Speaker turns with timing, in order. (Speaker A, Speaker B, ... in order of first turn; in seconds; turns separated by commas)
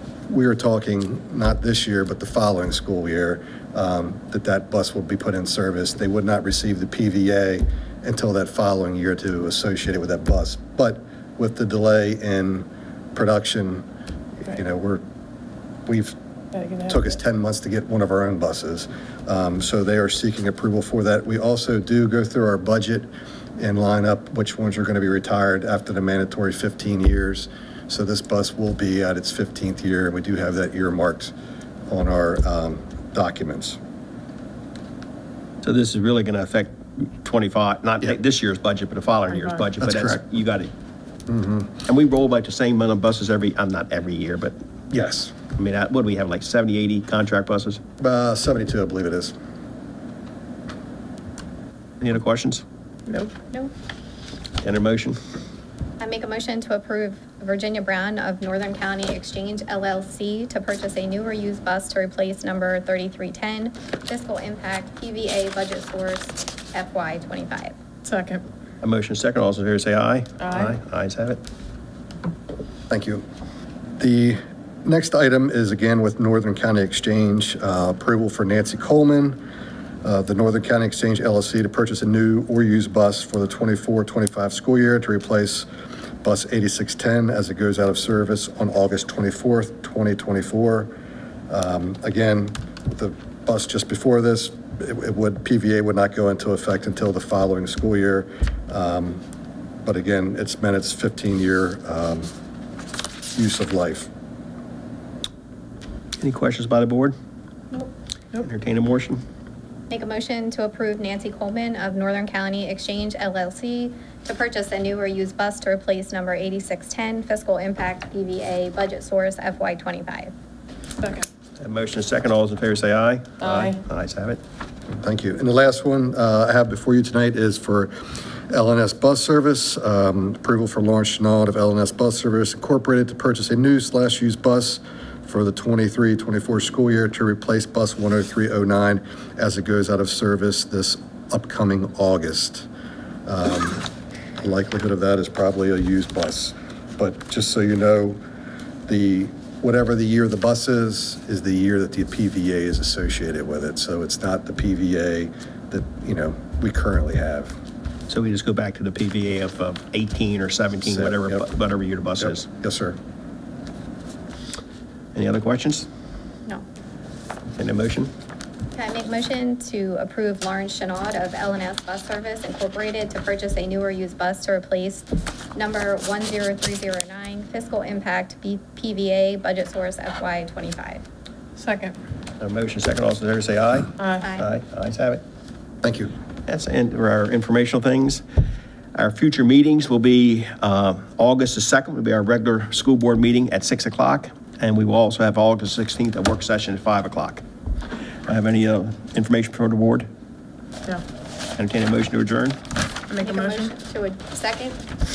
Speaker A: 0.3-13.9, Speaker A: 14.4-15.0, Speaker A: 15.9-16.2, Speaker B: 16.5-17.2, Speaker A: 16.9-31.3, Speaker A: 31.9-33.8, Speaker C: 35.6-40.7, Speaker B: 39.3-39.6, Speaker A: 39.8-40.2, Speaker A: 41.3-41.8, Speaker C: 41.9-44.6, Speaker A: 44.9-45.4, Speaker C: 45.5-47.8, Speaker A: 48.0-49.4, Speaker C: 52.0-52.6, Speaker B: 53.1-53.3, Speaker C: 54.6-55.2, Speaker D: 56.0-67.8, Speaker B: 68.0-68.4, Speaker C: 68.8-71.4, Speaker B: 70.4-70.8, Speaker A: 72.9-73.2, Speaker A: 74.0-79.4, Speaker A: 80.0-85.7, Speaker A: 86.2-90.9, Speaker A: 91.5-99.2, Speaker A: 99.8-102.3, Speaker A: 103.3-104.1, Speaker C: 106.2-107.2, Speaker C: 108.4-109.2, Speaker D: 109.9-120.3, Speaker B: 121.0-121.3, Speaker C: 121.6-124.4, Speaker B: 123.4-123.8, Speaker A: 124.9-142.7, Speaker A: 143.3-148.2, Speaker A: 148.9-157.6, Speaker C: 158.1-162.5, Speaker A: 160.8-161.5, Speaker A: 162.2-163.0, Speaker C: 165.1-165.9, Speaker C: 167.6-168.1, Speaker D: 168.7-181.0, Speaker B: 181.6-182.0, Speaker C: 182.4-185.2, Speaker B: 184.0-184.3, Speaker D: 184.2-184.5, Speaker A: 185.8-186.1, Speaker C: 186.5-188.2, Speaker C: 188.9-197.4, Speaker C: 198.3-200.1, Speaker C: 201.6-202.6, Speaker B: 203.1-203.7, Speaker D: 203.2-204.8